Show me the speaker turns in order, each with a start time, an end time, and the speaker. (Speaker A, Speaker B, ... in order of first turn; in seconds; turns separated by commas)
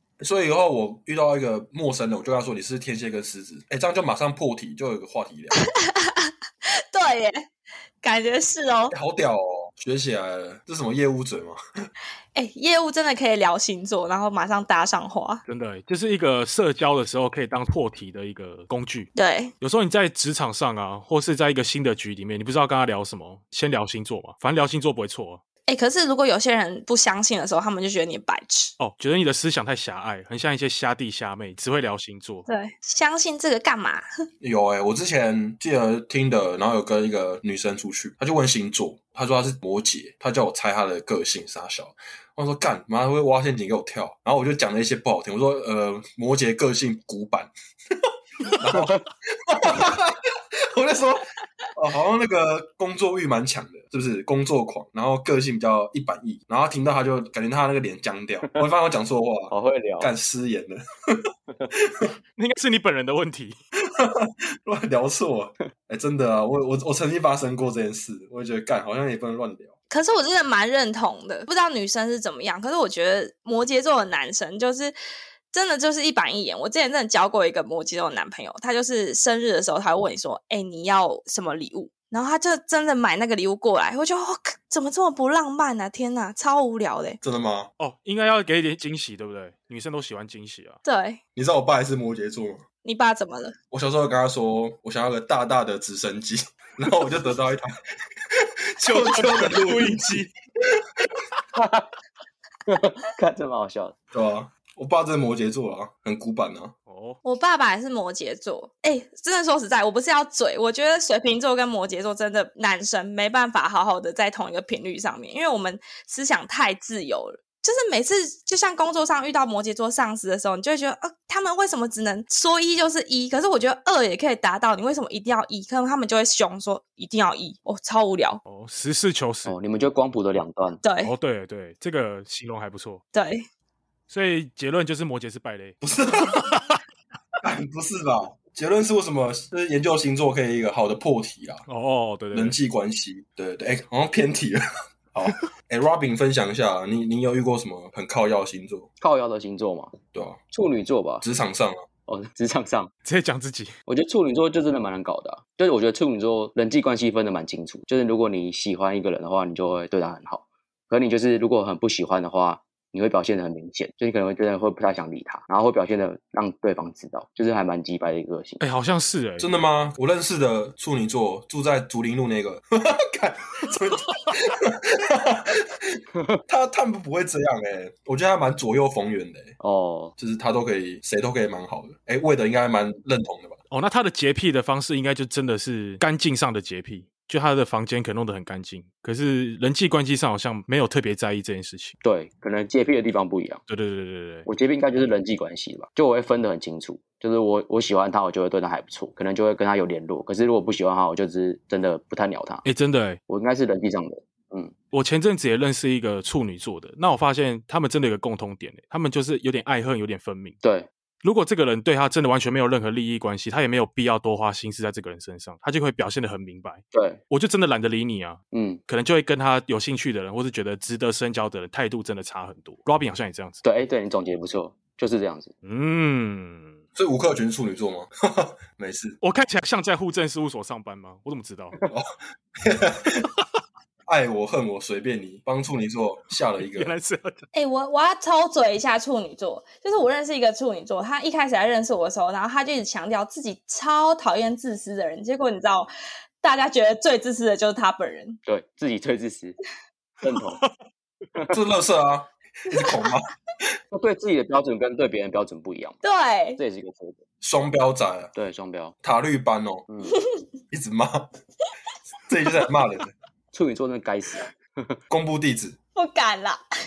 Speaker A: 0.2-5.6, Speaker B: 5.7-7.5, Speaker B: 8.0-8.9, Speaker A: 8.9-11.6, Speaker B: 12.3-15.4, Speaker C: 15.5-19.1, Speaker B: 19.1-19.5, Speaker C: 19.6-25.4, Speaker B: 25.7-28.7, Speaker C: 28.8-32.5, Speaker B: 32.5-34.0, Speaker A: 34.4-62.1, Speaker D: 59.5-60.1, Speaker C: 62.4-63.5, Speaker A: 63.9-69.7, Speaker B: 69.9-74.9, Speaker B: 75.5-87.2, Speaker A: 87.2-87.7, Speaker C: 87.8-90.8, Speaker B: 90.8-91.2, Speaker A: 91.3-92.6, Speaker B: 92.8-93.5, Speaker A: 93.7-97.7, Speaker A: 98.3-100.2, Speaker C: 98.8-100.3, Speaker A: 100.8-101.1, Speaker D: 101.5-101.9, Speaker D: 102.7-104.0, Speaker A: 104.1-106.7, Speaker C: 106.9-107.2, Speaker B: 107.2-128.4, Speaker C: 128.4-129.5, Speaker D: 129.4-130.8, Speaker B: 130.8-131.1, Speaker C: 131.0-133.0, Speaker B: 133.1-133.4, Speaker C: 134.1-135.8, Speaker A: 135.8-136.5, Speaker C: 136.3-136.8, Speaker A: 137.4-141.6, Speaker C: 141.7-142.6, Speaker A: 142.3-148.9, Speaker D: 149.0-149.9, Speaker A: 150.1-150.4, Speaker D: 150.5-151.2, Speaker A: 151.2-151.8, Speaker D: 152.1-152.9, Speaker C: 153.0-153.7, Speaker D: 153.9-168.6, Speaker C: 168.6-169.5, Speaker A: 169.4-179.6, Speaker D: 179.6-180.1, Speaker A: 180.2-183.6, Speaker C: 183.7-191.9, Speaker D: 192.0-193.6, Speaker C: 193.7-194.4, Speaker D: 194.4-202.6, Speaker C: 202.6-203.2, Speaker D: 203.3-204.7, Speaker C: 204.9-210.6, Speaker D: 210.6-210.9, Speaker C: 211.2-223.6, Speaker D: 216.9-217.2, Speaker D: 218.5-218.8, Speaker D: 223.6-225.5, Speaker C: 225.6-226.8, Speaker A: 226.9-229.2, Speaker C: 229.2-231.7, Speaker A: 231.9-233.3, Speaker A: 234.1-236.9, Speaker C: 236.6-237.4, Speaker B: 237.5-245.9, Speaker B: 246.4-248.4, Speaker D: 248.4-249.6, Speaker D: 250.2-250.6, Speaker A: 251.5-253.7, Speaker B: 252.8-253.1, Speaker D: 253.9-256.0, Speaker B: 256.0-256.6, Speaker D: 256.6-257.2, Speaker A: 257.4-258.3, Speaker D: 258.3-258.9, Speaker A: 259.0-259.9, Speaker D: 259.9-260.2, Speaker B: 260.1-260.4, Speaker A: 260.7-261.3, Speaker A: 262.3-263.1, Speaker D: 263.5-265.0, Speaker A: 265.1-265.8, Speaker B: 265.9-266.6